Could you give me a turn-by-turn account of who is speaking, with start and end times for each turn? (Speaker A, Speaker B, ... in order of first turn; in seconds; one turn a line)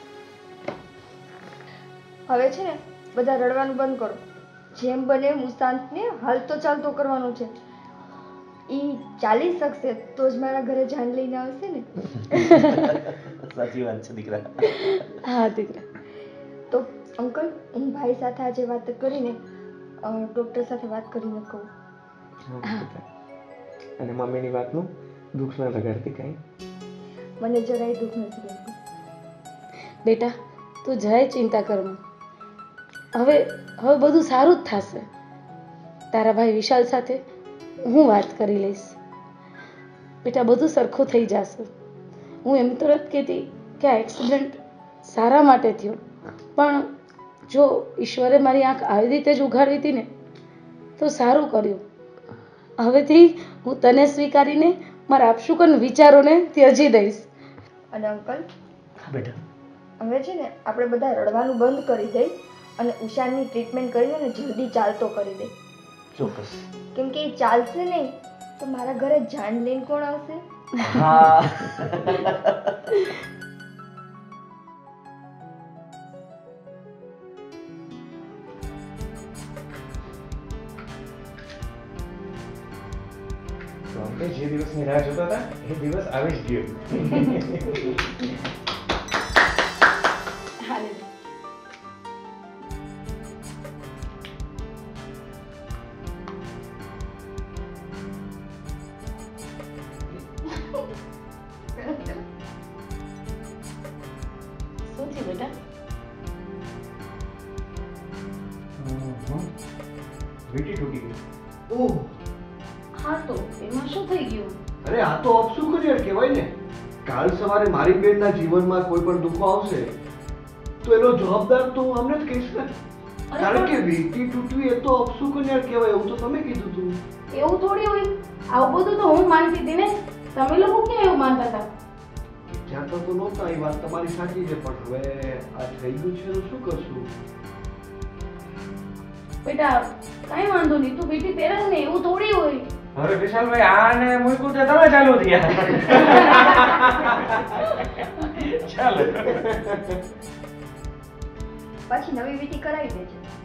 Speaker A: 2.3-4.2
Speaker A: 4.7-7.5
Speaker A: 8.7-12.8
Speaker B: 12.4-15.0
Speaker C: 12.4-12.8
Speaker C: 14.6-15.8
Speaker A: 16.7-19.4
Speaker A: 20.0-21.7
Speaker D: 22.5-23.0
Speaker D: 24.0-26.4
Speaker A: 27.4-28.8
Speaker C: 30.1-32.0
Speaker C: 33.1-35.1
Speaker C: 36.1-37.2
Speaker C: 37.9-39.0
Speaker C: 40.2-41.7
Speaker C: 42.4-46.0
Speaker C: 46.6-46.9
Speaker C: 47.5-50.1
Speaker C: 51.0-51.8
Speaker C: 52.8-57.3
Speaker A: 57.9-58.5
Speaker B: 59.0-59.4
Speaker A: 60.0-65.5
Speaker B: 66.2-66.7
Speaker A: 67.0-70.4
Speaker B: 70.8-72.8
Speaker D: 83.9-87.9
Speaker C: 90.6-91.1
Speaker A: 101.8-102.2
Speaker C: 104.9-105.5
Speaker E: 108.8-109.4
Speaker E: 110.5-111.2
Speaker E: 111.7-112.1
Speaker C: 113.0-114.6
Speaker E: 114.8-116.5
Speaker E: 117.1-119.9
Speaker E: 120.8-122.7
Speaker C: 123.3-123.8
Speaker E: 123.4-127.0
Speaker C: 127.3-131.7
Speaker E: 132.5-137.1
Speaker C: 139.4-142.7
Speaker D: 143.0-149.8
Speaker E: 145.8-146.6
Speaker E: 149.1-149.8
Speaker A: 151.9-153.2